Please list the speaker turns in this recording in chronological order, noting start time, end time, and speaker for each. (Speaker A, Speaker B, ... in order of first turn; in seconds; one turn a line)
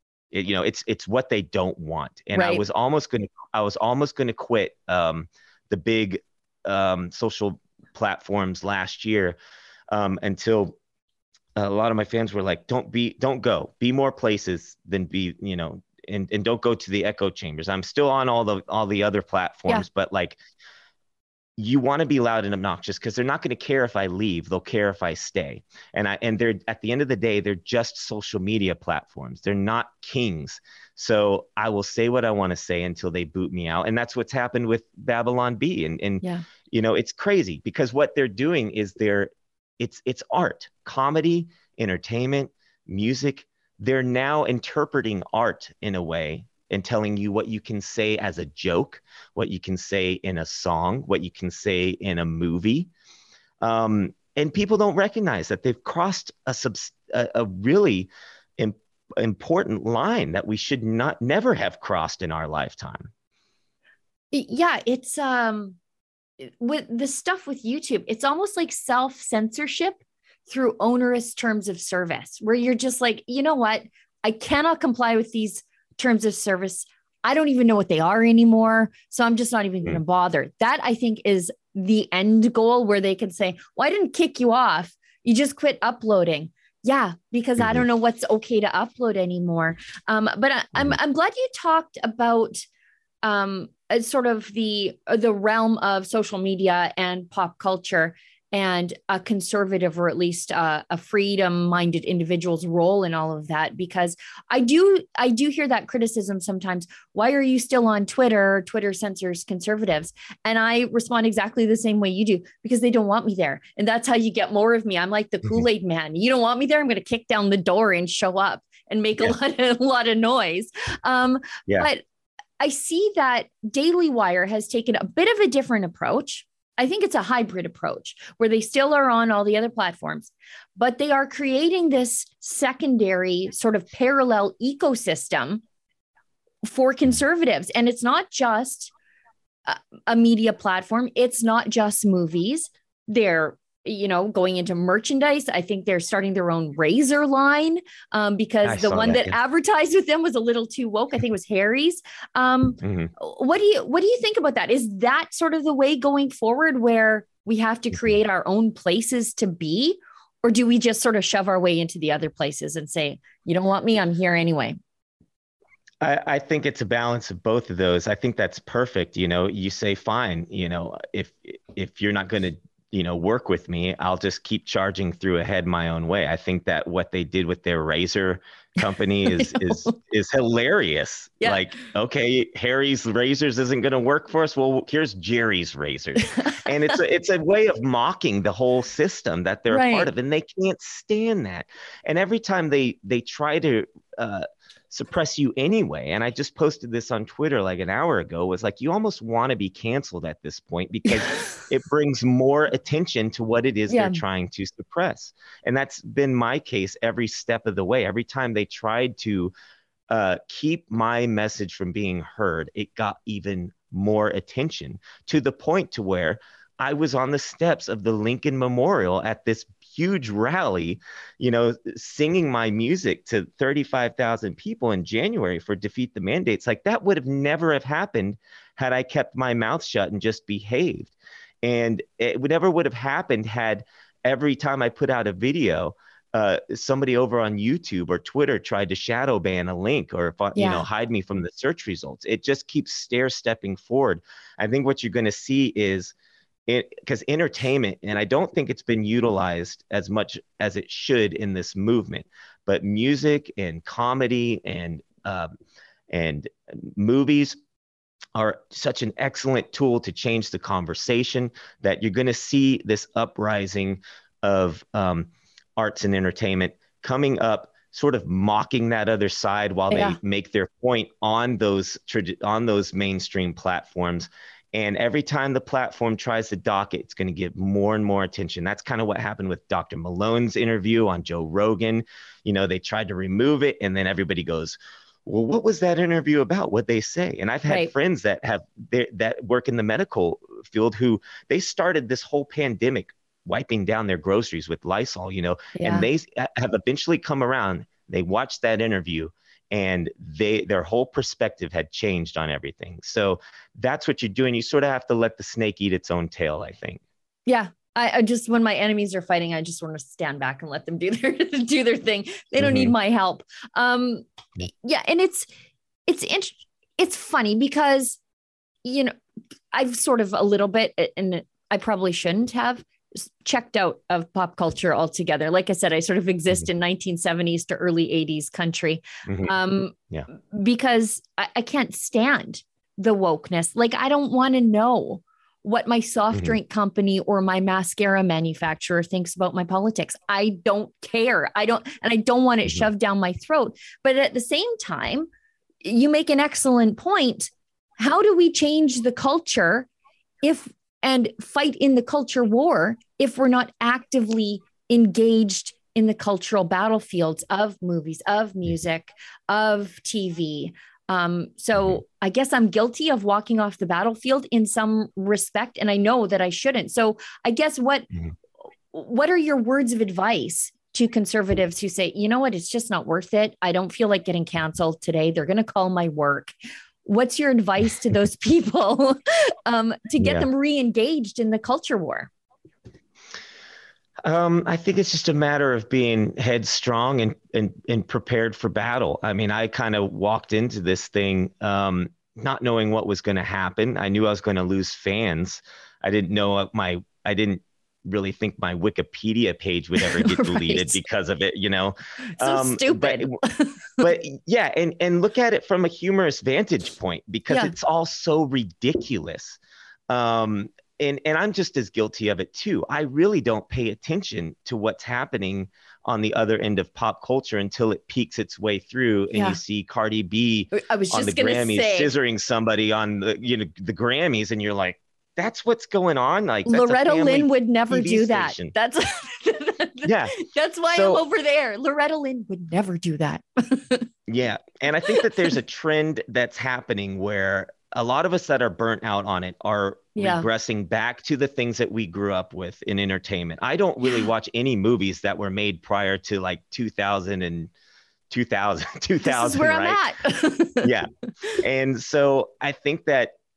Speaker A: 0.3-9.3
Speaker B: 2.3-2.6
Speaker A: 9.9-10.8
Speaker A: 11.6-20.4
Speaker A: 21.6-52.9
Speaker A: 53.6-63.1
Speaker B: 64.3-65.8
Speaker B: 66.4-92.6
Speaker B: 93.2-122.0
Speaker B: 122.6-135.6
Speaker B: 136.7-138.9
Speaker B: 139.7-164.8
Speaker A: 148.6-149.3
Speaker A: 152.8-153.1
Speaker A: 166.0-209.5
Speaker B: 179.3-179.9
Speaker B: 186.2-186.7
Speaker B: 189.7-190.1
Speaker B: 201.3-201.6
Speaker B: 203.9-204.2
Speaker A: 210.1-246.1
Speaker B: 240.5-240.8
Speaker A: 246.7-255.5
Speaker A: 256.1-257.6
Speaker A: 258.3-307.0
Speaker B: 269.9-270.2
Speaker B: 295.7-296.1
Speaker B: 307.4-315.5
Speaker A: 312.6-312.9
Speaker B: 316.1-318.2
Speaker B: 318.8-319.1
Speaker B: 319.7-345.3
Speaker A: 329.2-329.5
Speaker B: 345.8-349.9
Speaker B: 350.4-368.1
Speaker B: 368.9-376.5
Speaker B: 377.0-382.3
Speaker A: 380.2-380.5
Speaker A: 384.2-403.3
Speaker B: 400.0-401.0
Speaker B: 402.4-404.1
Speaker A: 404.0-409.6
Speaker A: 410.1-428.7
Speaker B: 419.3-419.6
Speaker B: 420.7-422.1
Speaker B: 426.7-434.1
Speaker A: 430.0-430.3
Speaker A: 430.9-431.2
Speaker A: 434.3-447.7
Speaker B: 440.1-440.4
Speaker A: 448.3-450.0
Speaker B: 449.2-450.9
Speaker A: 450.8-453.3